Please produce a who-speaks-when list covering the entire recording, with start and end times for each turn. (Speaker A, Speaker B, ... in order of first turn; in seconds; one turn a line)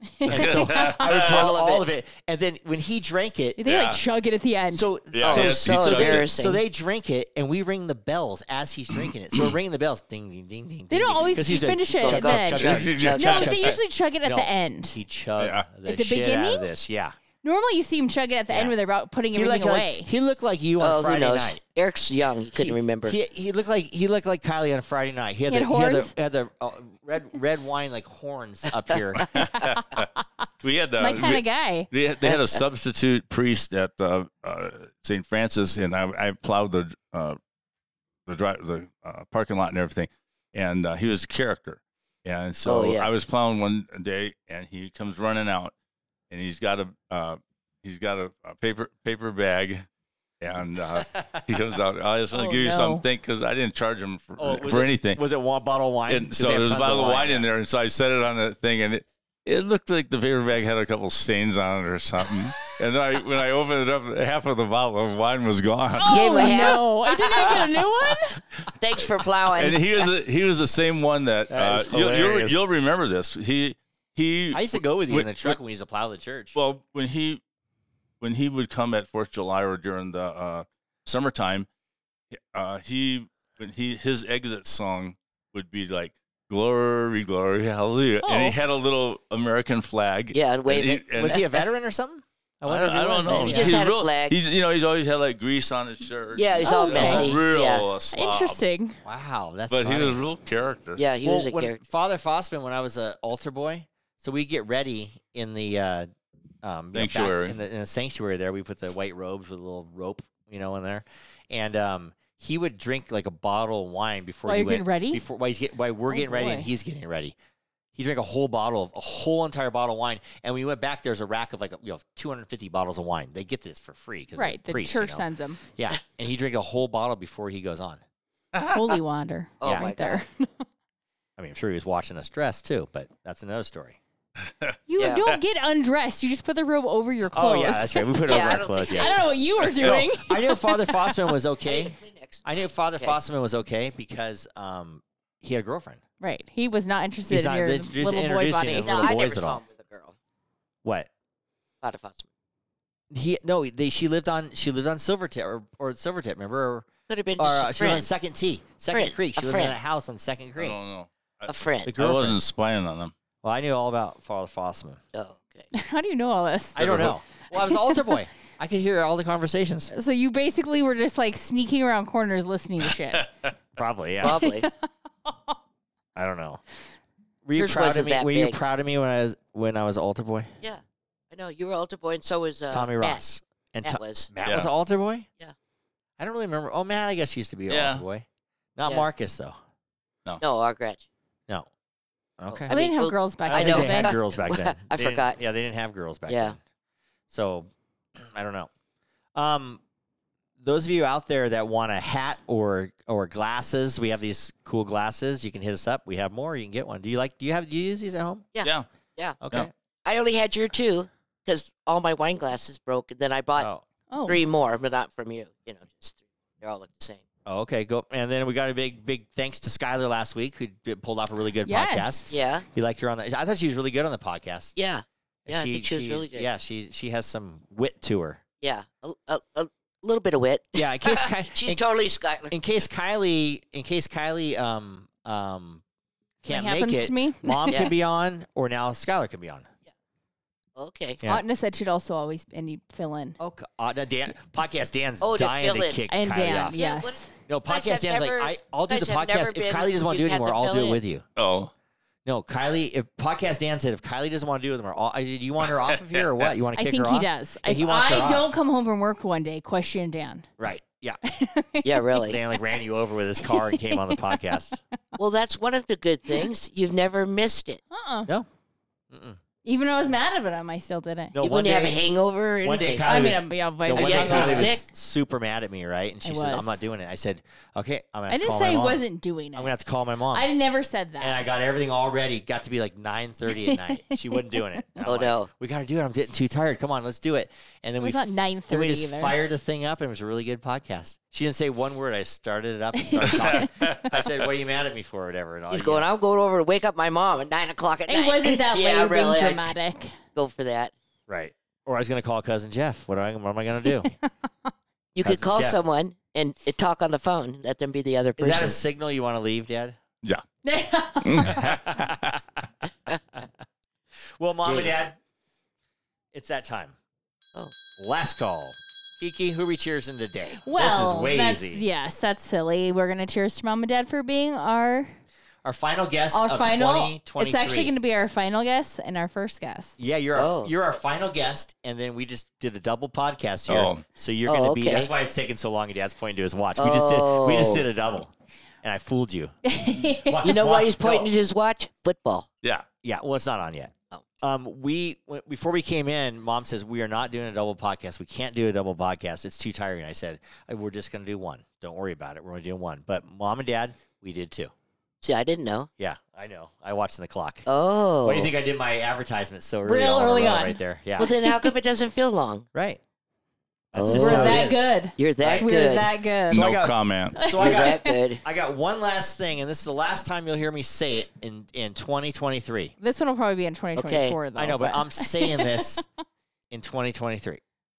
Speaker A: 0.2-1.1
Speaker B: 0.2-3.6
Speaker C: 0.3-1.5
Speaker D: 1.1-1.9
Speaker A: 3.6-4.9
Speaker C: 3.6-4.0
Speaker B: 4.7-13.0
Speaker C: 5.1-6.3
Speaker D: 5.2-6.6
Speaker A: 10.9-15.0
Speaker D: 12.0-13.7
Speaker C: 12.6-13.8
Speaker B: 13.6-17.1
Speaker C: 15.4-15.7
Speaker A: 15.8-16.7
Speaker A: 17.4-20.1
Speaker B: 18.5-18.7
Speaker B: 19.3-21.6
Speaker D: 20.8-23.2
Speaker B: 22.6-29.5
Speaker A: 25.5-26.1
Speaker C: 29.2-30.1
Speaker A: 29.8-30.2
Speaker C: 30.6-37.4
Speaker A: 31.0-31.9
Speaker D: 32.2-32.6
Speaker C: 38.3-45.7
Speaker D: 42.6-43.1
Speaker C: 46.3-49.9
Speaker C: 50.4-55.2
Speaker A: 52.4-53.0
Speaker B: 54.4-57.5
Speaker C: 56.1-66.5
Speaker A: 66.0-68.4
Speaker D: 66.1-67.7
Speaker D: 68.8-70.1
Speaker C: 69.5-75.6
Speaker B: 71.5-72.7
Speaker B: 74.5-76.6
Speaker C: 76.5-77.4
Speaker C: 78.2-81.7
Speaker C: 82.3-91.4
Speaker A: 88.2-88.6
Speaker D: 90.3-91.4
Speaker B: 91.2-93.7
Speaker C: 92.7-98.6
Speaker D: 93.3-94.4
Speaker A: 93.3-93.7
Speaker D: 96.3-97.9
Speaker A: 96.6-97.3
Speaker B: 97.0-97.2
Speaker A: 98.1-99.0
Speaker B: 99.0-100.2
Speaker C: 99.7-101.0
Speaker D: 101.0-101.8
Speaker B: 101.2-106.1
Speaker B: 106.6-117.3
Speaker C: 106.9-107.6
Speaker A: 114.5-115.2
Speaker A: 116.1-116.7
Speaker B: 118.0-128.0
Speaker A: 124.4-125.6
Speaker A: 128.7-130.6
Speaker D: 129.6-130.2
Speaker B: 129.6-129.9
Speaker B: 131.4-134.0
Speaker C: 134.4-134.8
Speaker A: 134.9-141.3
Speaker B: 137.3-139.2
Speaker D: 138.3-139.2
Speaker C: 139.6-140.0
Speaker B: 139.8-146.0
Speaker D: 141.7-142.4
Speaker A: 146.2-149.1
Speaker B: 147.3-149.6
Speaker D: 148.8-150.2
Speaker B: 150.8-151.1
Speaker D: 151.8-152.3
Speaker B: 153.1-160.8
Speaker D: 157.1-158.1
Speaker D: 158.9-159.8
Speaker C: 160.6-163.1
Speaker D: 161.5-161.9
Speaker B: 161.9-162.4
Speaker B: 163.4-165.0
Speaker D: 165.1-165.7
Speaker A: 165.7-166.8
Speaker B: 166.8-169.9
Speaker C: 166.8-167.2
Speaker A: 167.6-168.0
Speaker A: 169.9-173.3
Speaker C: 173.1-173.5
Speaker B: 173.8-174.4
Speaker D: 174.2-174.7
Speaker A: 174.3-174.7
Speaker A: 175.3-175.6
Speaker B: 176.2-176.6
Speaker B: 177.4-180.5
Speaker D: 177.6-178.6
Speaker D: 180.6-183.2
Speaker B: 182.7-185.3
Speaker D: 183.8-184.3
Speaker B: 186.2-188.2
Speaker C: 187.7-188.0
Speaker B: 188.8-189.6
Speaker D: 190.4-191.1
Speaker B: 192.4-192.7
Speaker D: 192.5-195.4
Speaker A: 192.7-194.2
Speaker B: 193.5-196.6
Speaker D: 196.3-196.6
Speaker B: 197.3-198.7
Speaker B: 199.4-199.8
Speaker B: 200.6-208.5
Speaker D: 208.5-209.4
Speaker C: 208.6-208.9
Speaker B: 209.4-209.7
Speaker D: 210.1-213.7
Speaker B: 213.6-213.8
Speaker A: 214.1-214.4
Speaker D: 214.3-217.2
Speaker B: 217.5-224.8
Speaker A: 221.7-222.4
Speaker D: 222.3-222.7
Speaker D: 224.8-226.5
Speaker B: 225.5-228.4
Speaker D: 228.6-232.6
Speaker B: 230.8-231.8
Speaker B: 232.5-235.8
Speaker B: 236.4-239.7
Speaker A: 236.5-237.8
Speaker D: 237.7-237.9
Speaker D: 240.8-241.2
Speaker A: 241.2-243.4
Speaker B: 243.4-246.8
Speaker D: 245.2-246.0
Speaker A: 246.1-247.3
Speaker D: 246.7-251.0
Speaker B: 247.5-251.2
Speaker C: 251.4-251.7
Speaker B: 252.2-258.5
Speaker C: 255.8-256.5
Speaker A: 256.7-260.5
Speaker B: 260.6-261.2
Speaker A: 261.2-262.0
Speaker D: 261.8-262.4
Speaker B: 262.2-264.8
Speaker A: 263.4-264.6
Speaker D: 265.2-267.8
Speaker A: 267.9-268.3
Speaker B: 269.1-269.4
Speaker A: 269.6-271.4
Speaker B: 271.3-272.0
Speaker D: 271.4-273.4
Speaker B: 272.6-279.0
Speaker A: 273.1-274.9
Speaker D: 273.9-274.9
Speaker A: 276.2-276.8
Speaker A: 278.3-279.7
Speaker B: 279.5-280.5
Speaker A: 280.3-281.5
Speaker B: 281.2-296.1
Speaker A: 283.5-284.7
Speaker D: 285.1-285.5
Speaker A: 288.0-289.4
Speaker A: 293.0-293.9
Speaker C: 293.2-294.3
Speaker D: 295.7-299.7
Speaker A: 298.1-300.1
Speaker D: 300.3-300.9
Speaker B: 301.3-304.1
Speaker D: 305.1-308.8
Speaker B: 305.2-305.8
Speaker B: 308.4-310.0
Speaker A: 310.6-311.6
Speaker C: 311.2-312.4
Speaker B: 311.6-312.4
Speaker B: 314.4-315.2
Speaker D: 314.6-314.9
Speaker B: 316.3-316.9
Speaker B: 318.0-321.8
Speaker A: 320.6-325.1
Speaker B: 325.6-327.9
Speaker A: 326.3-330.0
Speaker B: 330.0-339.6
Speaker D: 330.4-330.7
Speaker C: 333.7-334.0
Speaker D: 334.5-335.1
Speaker D: 336.8-337.8
Speaker A: 339.6-340.5
Speaker B: 340.1-341.3
Speaker D: 340.4-342.5
Speaker B: 343.0-354.7
Speaker D: 355.2-355.9
Speaker B: 356.0-357.7
Speaker D: 357.7-358.5
Speaker B: 358.2-361.3
Speaker A: 359.9-360.8
Speaker D: 361.2-362.7
Speaker B: 362.7-363.0
Speaker B: 363.9-365.7
Speaker D: 363.9-366.1
Speaker A: 364.1-366.6
Speaker C: 366.5-367.4
Speaker B: 366.5-372.9
Speaker A: 367.4-368.2
Speaker D: 367.6-368.4
Speaker A: 373.0-376.0
Speaker D: 374.0-374.4
Speaker B: 374.6-376.0
Speaker B: 376.7-377.6